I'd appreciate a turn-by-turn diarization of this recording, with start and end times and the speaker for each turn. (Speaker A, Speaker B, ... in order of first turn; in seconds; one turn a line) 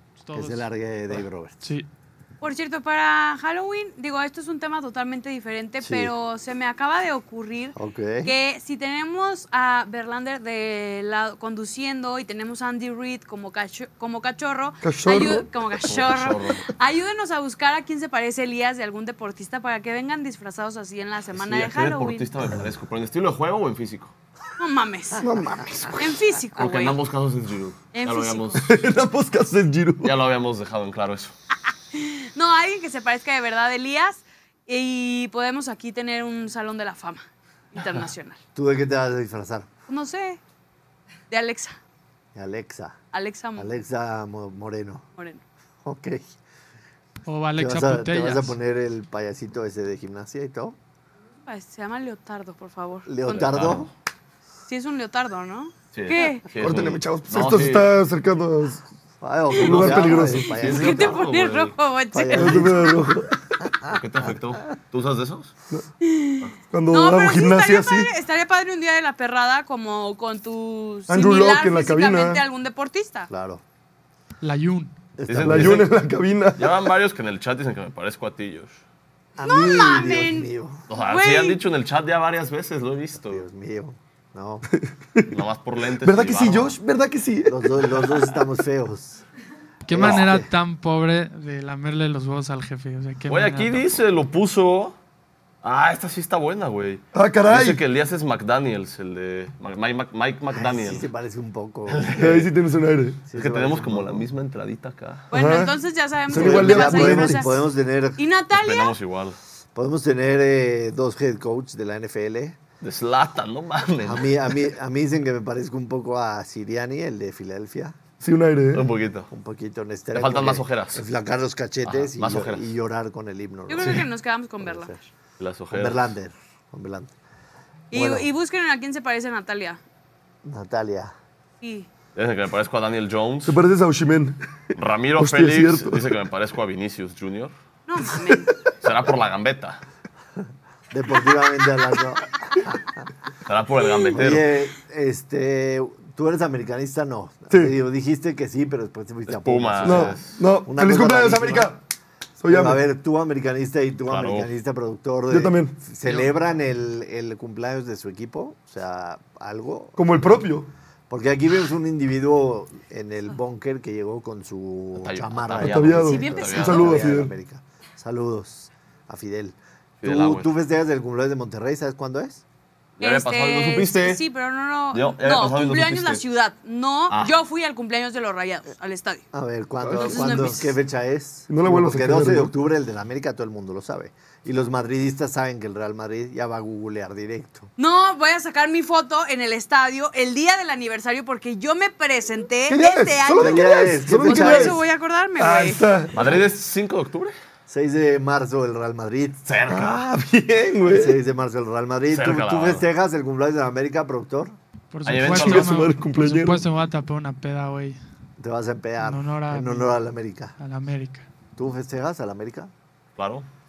Speaker A: 0.2-0.6
Speaker B: 0.3-1.6
Speaker C: 2.4-22.3
Speaker B: 5.8-6.1
Speaker B: 7.8-8.3
Speaker D: 14.8-15.5
Speaker E: 15.8-16.7
Speaker E: 21.4-24.1
Speaker C: 24.6-25.3
Speaker D: 25.2-26.2
Speaker C: 25.9-27.0
Speaker E: 26.6-28.7
Speaker C: 27.9-28.6
Speaker D: 28.6-30.2
Speaker E: 30.0-31.3
Speaker C: 31.9-38.4
Speaker B: 38.5-39.7
Speaker C: 39.9-40.4
Speaker C: 41.3-41.8
Speaker B: 42.4-43.0
Speaker C: 43.1-43.7
Speaker B: 43.6-45.0
Speaker C: 45.2-45.4
Speaker B: 45.9-46.2
Speaker A: 47.3-48.6
Speaker B: 47.6-50.8
Speaker C: 51.5-53.5
Speaker B: 53.1-53.9
Speaker E: 53.3-53.9
Speaker C: 54.7-56.4
Speaker E: 55.9-57.9
Speaker D: 56.6-58.8
Speaker B: 59.2-61.2
Speaker D: 59.6-60.5
Speaker E: 59.6-61.7
Speaker C: 60.6-62.9
Speaker B: 62.1-63.2
Speaker D: 62.3-63.4
Speaker B: 63.7-64.0
Speaker E: 63.9-65.5
Speaker C: 66.0-73.3
Speaker D: 66.7-68.1
Speaker D: 71.1-72.4
Speaker B: 73.3-73.6
Speaker A: 74.4-74.9
Speaker B: 75.2-75.9
Speaker E: 75.3-75.9
Speaker D: 75.4-76.9
Speaker E: 76.6-78.8
Speaker B: 79.4-80.8
Speaker C: 79.4-81.6
Speaker E: 80.9-83.5
Speaker B: 83.3-84.7
Speaker E: 85.3-86.8
Speaker D: 86.0-88.1
Speaker B: 87.5-89.2
Speaker A: 89.9-93.9
Speaker B: 89.9-90.5
Speaker E: 93.3-95.0
Speaker E: 95.6-101.1
Speaker D: 97.1-97.8
Speaker B: 100.5-102.2
Speaker E: 101.9-102.5
Speaker D: 102.2-103.2
Speaker B: 103.3-104.3
Speaker E: 103.3-105.3
Speaker C: 105.3-107.6
Speaker D: 105.3-105.7
Speaker D: 106.3-107.4
Speaker B: 106.3-108.2
Speaker C: 108.2-109.0
Speaker E: 108.5-109.4
Speaker B: 109.7-112.6
Speaker E: 112.8-114.7
Speaker B: 114.0-118.0
Speaker D: 118.2-118.9
Speaker E: 118.7-119.3
Speaker B: 119.3-124.1
Speaker E: 120.1-121.0
Speaker E: 121.8-122.7
Speaker C: 123.7-124.9
Speaker B: 124.6-125.0
Speaker E: 125.4-126.1
Speaker B: 125.7-127.1
Speaker C: 127.9-129.8
Speaker B: 127.9-128.3
Speaker B: 130.4-131.1
Speaker C: 131.6-131.9
Speaker E: 132.1-133.6
Speaker D: 133.4-134.4
Speaker E: 134.7-137.5
Speaker D: 135.2-136.1
Speaker C: 137.9-138.5
Speaker E: 138.8-139.8
Speaker B: 140.9-142.8
Speaker E: 143.4-144.5
Speaker B: 144.2-151.7
Speaker E: 149.3-150.4
Speaker D: 149.8-151.8
Speaker D: 152.4-152.8
Speaker B: 152.5-160.3
Speaker E: 154.1-154.5
Speaker D: 155.3-155.8
Speaker D: 160.0-160.7
Speaker B: 161.1-172.4
Speaker E: 164.9-167.1
Speaker D: 165.6-167.3
Speaker C: 166.1-166.7
Speaker E: 170.0-170.6
Speaker E: 173.0-174.2
Speaker C: 173.0-179.2
Speaker E: 174.9-176.2
Speaker B: 179.3-187.7
Speaker D: 179.8-180.4
Speaker C: 179.9-180.7
Speaker D: 181.5-182.5
Speaker C: 187.8-195.9
Speaker D: 192.7-194.8
Speaker B: 193.4-194.8
Speaker D: 195.4-196.4
Speaker E: 196.1-197.3
Speaker B: 197.7-199.4
Speaker E: 199.4-200.0
Speaker D: 199.7-201.2
Speaker B: 200.9-204.6
Speaker E: 202.1-202.9
Speaker A: 204.9-208.0
Speaker E: 205.1-205.9
Speaker D: 205.2-206.6
Speaker B: 208.4-210.6
Speaker A: 209.0-209.9
Speaker A: 210.6-211.3
Speaker B: 211.6-212.7
Speaker E: 213.2-213.4